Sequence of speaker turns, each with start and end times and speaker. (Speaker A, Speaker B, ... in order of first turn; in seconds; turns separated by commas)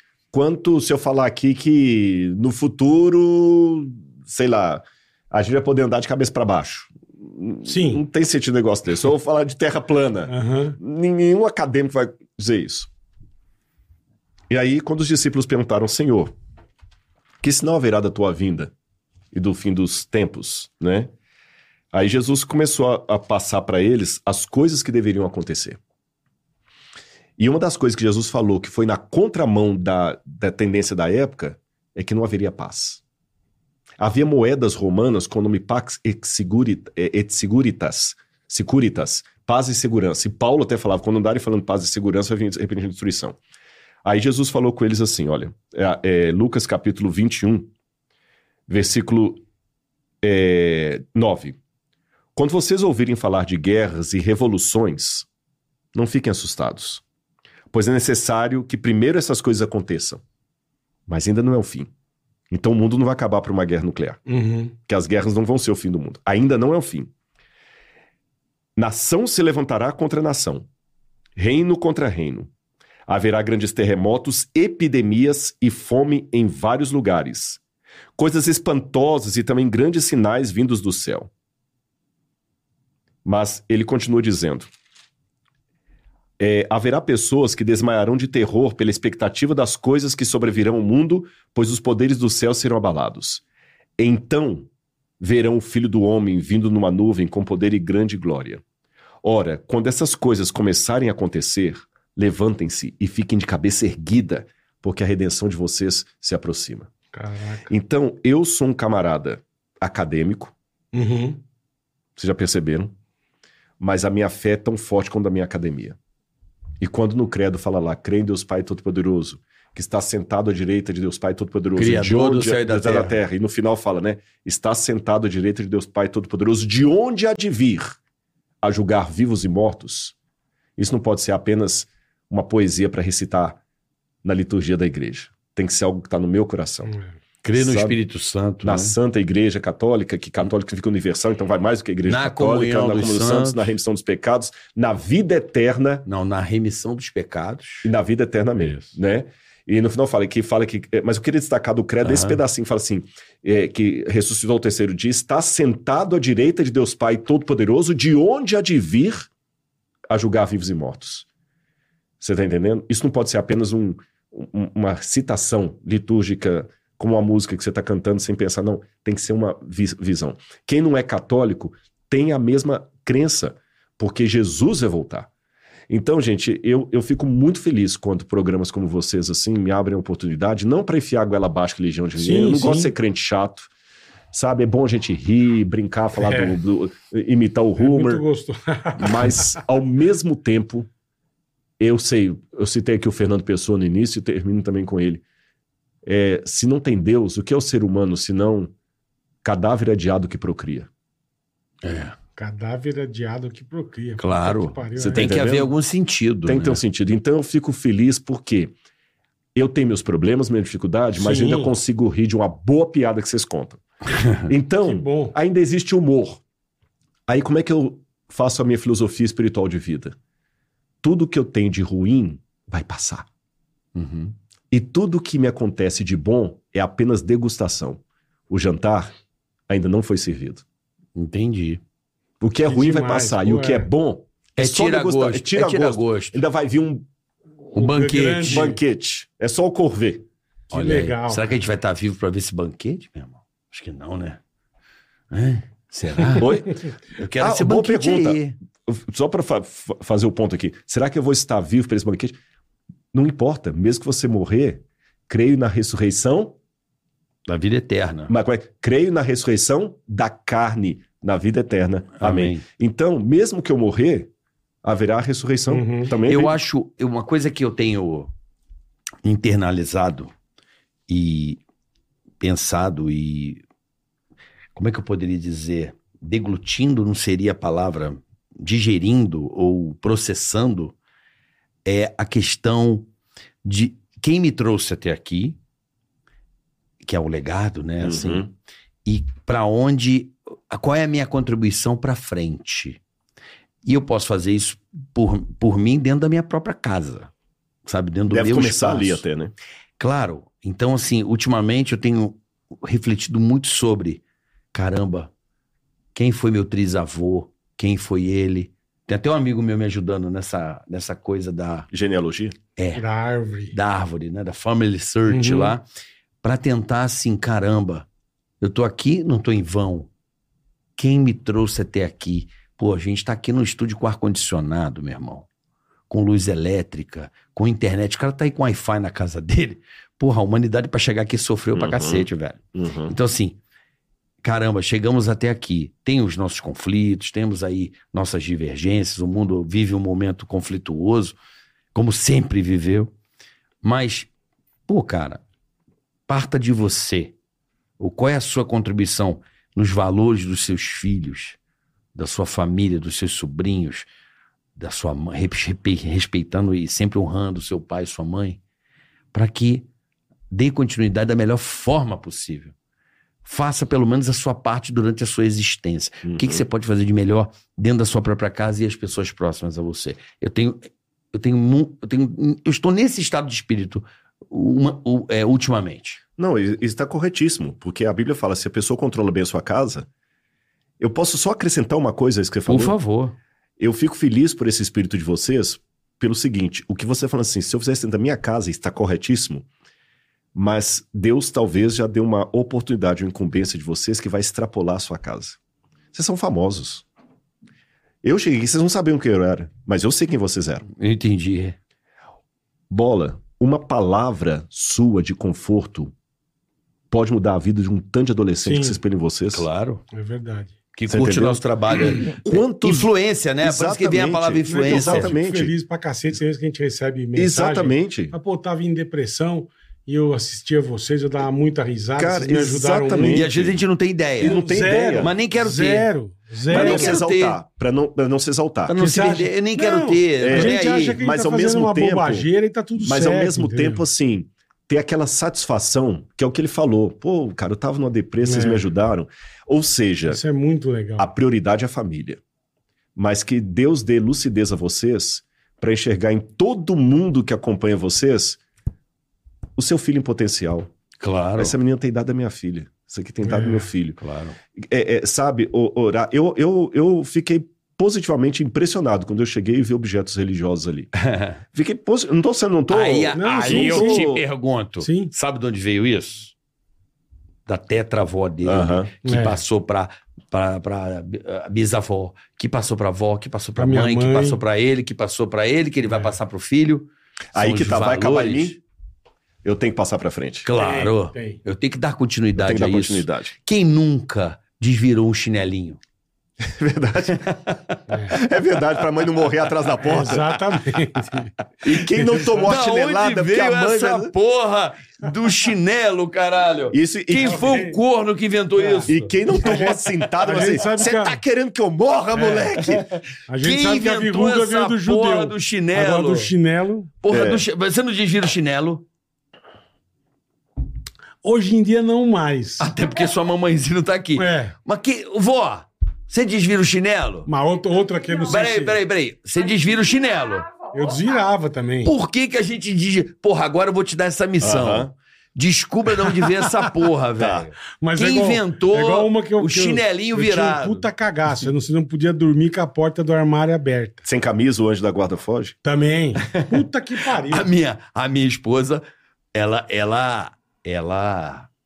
Speaker A: 0.3-12.9, Speaker B: 7.7-8.0, Speaker B: 10.3-10.8, Speaker A: 14.5-16.3, Speaker A: 17.4-18.7, Speaker A: 19.3-21.1, Speaker A: 21.9-25.8, Speaker A: 27.4-33.0, Speaker A: 34.0-43.4, Speaker A: 44.0-47.7, Speaker A: 48.7-49.4, Speaker A: 50.2-51.6, Speaker A: 52.4-55.3, Speaker A: 55.9-57.0, Speaker A: 57.7-60.2, Speaker A: 61.1-61.9, Speaker A: 62.5-64.2, Speaker B: 64.3-64.7, Speaker A: 64.9-67.1, Speaker A: 68.8-70.7, Speaker A: 71.3-72.5, Speaker A: 73.1-77.6, Speaker A: 78.2-81.3, Speaker A: 83.2-84.7, Speaker A: 86.4-93.4, Speaker A: 94.0-94.7, Speaker A: 95.2-98.6, Speaker A: 99.2-106.9, Speaker B: 107.1-107.7, Speaker A: 107.7-110.5, Speaker B: 110.9-111.4, Speaker A: 112.2-112.9, Speaker A: 113.8-116.0, Speaker A: 116.8-128.0, Speaker C: 121.8-123.2, Speaker A: 128.6-130.1, Speaker A: 130.8-133.6, Speaker A: 134.2-136.9, Speaker C: 137.4-138.9, Speaker A: 137.5-138.0, Speaker A: 138.6-146.0, Speaker C: 142.1-143.7, Speaker C: 146.1-147.9, Speaker A: 147.8-159.3, Speaker C: 148.6-148.9, Speaker C: 152.0-152.4, Speaker A: 160.1-161.3, Speaker A: 162.2-175.3, Speaker A: 175.9-183.7, Speaker B: 182.2-182.9, Speaker A: 184.3-188.2, Speaker B: 186.2-186.6, Speaker B: 187.8-189.6, Speaker A: 189.0-190.9, Speaker A: 191.8-195.2, Speaker A: 196.0-198.7, Speaker A: 199.4-200.9, Speaker C: 201.8-202.2, Speaker B: 202.3-205.4, Speaker C: 204.2-206.8, Speaker A: 205.0-205.7, Speaker A: 206.4-208.7, Speaker A: 209.5-213.8, Speaker B: 211.2-211.7, Speaker C: 214.1-214.5, Speaker A: 214.4-216.4, Speaker B: 214.8-215.3, Speaker A: 217.3-220.1, Speaker A: 221.0-223.3, Speaker C: 223.9-224.3, Speaker A: 224.7-229.1, Speaker A: 229.7-230.6, Speaker C: 231.2-231.8, Speaker A: 232.4-237.1, Speaker B: 232.7-233.9, Speaker C: 234.6-236.4, Speaker C: 237.7-238.8, Speaker B: 237.7-238.7, Speaker A: 238.4-240.2, Speaker C: 240.7-244.4, Speaker B: 240.7-241.5, Speaker C: 245.3-246.5, Speaker A: 246.3-246.8, Speaker C: 247.2-248.6, Speaker A: 247.4-252.3, Speaker A: 253.1-256.6, Speaker C: 257.5-258.3, Speaker A: 258.3-264.3, Speaker C: 262.2-262.6, Speaker A: 264.8-266.6, Speaker B: 265.7-266.1, Speaker C: 266.2-268.3, Speaker C: 269.2-270.3, Speaker C: 271.1-271.6, Speaker C: 272.4-273.6, Speaker C: 274.7-280.9, Speaker C: 281.8-283.1, Speaker C: 283.6-285.6, Speaker C: 287.0-288.5, Speaker A: 288.0-288.5, Speaker C: 289.0-293.0, Speaker C: 293.8-297.3, Speaker C: 297.9-299.2, Speaker A: 298.3-299.5, Speaker C: 300.0-304.2, Speaker C: 304.7-305.3, Speaker C: 306.1-311.9, Speaker A: 311.9-312.5, Speaker C: 312.8-313.0, Speaker B: 313.0-313.7, Speaker C: 313.7-315.8, Speaker B: 315.3-315.7, Speaker C: 316.4-318.1, Speaker C: 318.6-320.1, Speaker C: 321.0-325.5, Speaker C: 326.1-333.6, Speaker A: 331.7-333.1, Speaker C: 334.4-341.4, Speaker C: 341.9-343.1, Speaker C: 343.8-344.3, Speaker C: 344.9-345.4, Speaker C: 346.3-347.3, Speaker C: 348.0-351.6, Speaker C: 352.1-354.1, Speaker C: 354.8-358.6, Speaker C: 359.3-359.9, Speaker C: 360.5-362.7, Speaker C: 363.4-376.2, Speaker A: 366.2-366.6, Speaker A: 376.4-380.1, Speaker A: 381.0-382.9, Speaker C: 382.7-383.3, Speaker A: 383.8-389.7, Speaker A: 390.5-395.6, Speaker A: 396.1-397.0, Speaker A: 398.2-400.8, Speaker C: 400.9-401.8, Speaker A: 402.9-406.1, Speaker A: 407.1-409.6, Speaker B: 408.6-409.0, Speaker C: 409.5-410.0, Speaker B: 410.1-410.7, Speaker C: 410.9-415.3, Speaker A: 411.1-413.1, Speaker A: 413.6-415.7, Speaker B: 414.7-423.5, Speaker A: 417.3-418.3, Speaker A: 422.2-423.8, Speaker C: 423.3-424.6, Speaker A: 424.4-425.3, Speaker B: 424.4-427.2, Speaker C: 425.2-426.1, Speaker C: 426.7-427.6, Speaker A: 426.7-428.9, Speaker C: 428.9-431.2, Speaker B: 429.0-434.0, Speaker A: 430.4-432.5, Speaker A: 433.0-440.4, Speaker B: 438.4-438.9, Speaker B: 440.3-441.3, Speaker A: 441.2-442.4, Speaker A: 443.1-448.6, Speaker A: 449.8-450.9, Speaker C: 451.2-451.8, Speaker A: 451.6-454.2, Speaker B: 453.4-453.9, Speaker C: 454.2-454.6, Speaker A: 454.8-461.1, Speaker C: 461.1-461.6, Speaker A: 461.7-464.4, Speaker C: 462.9-466.5, Speaker B: 463.4-464.3, Speaker B: 465.0-465.3, Speaker C: 467.7-478.8, Speaker A: 468.6-469.1, Speaker B: 469.2-469.6, Speaker B: 473.8-474.6, Speaker A: 477.5-478.8, Speaker A: 479.6-480.7, Speaker C: 480.6-486.0, Speaker B: 480.8-481.6, Speaker A: 482.6-483.5, Speaker A: 486.6-490.6, Speaker B: 488.1-488.4, Speaker B: 490.0-492.8, Speaker A: 491.8-494.3, Speaker C: 492.7-499.9, Speaker A: 496.9-497.8, Speaker B: 497.4-498.0, Speaker B: 498.8-501.4, Speaker A: 499.1-503.0, Speaker C: 500.5-500.8, Speaker B: 502.3-502.9, Speaker C: 502.8-506.5, Speaker B: 503.5-507.1, Speaker C: 507.2-509.0, Speaker A: 507.3-507.6, Speaker B: 511.4-512.9, Speaker C: 512.8-517.5, Speaker B: 514.4-514.7, Speaker B: 517.5-519.0, Speaker C: 518.4-520.9, Speaker B: 520.9-522.1, Speaker C: 522.0-531.0, Speaker A: 524.6-525.1, Speaker B: 526.4-526.7, Speaker A: 527.4-527.7, Speaker B: 528.0-534.2, Speaker A: 534.2-535.7, Speaker B: 535.8-537.7, Speaker C: 536.4-539.0, Speaker C: 539.5-541.7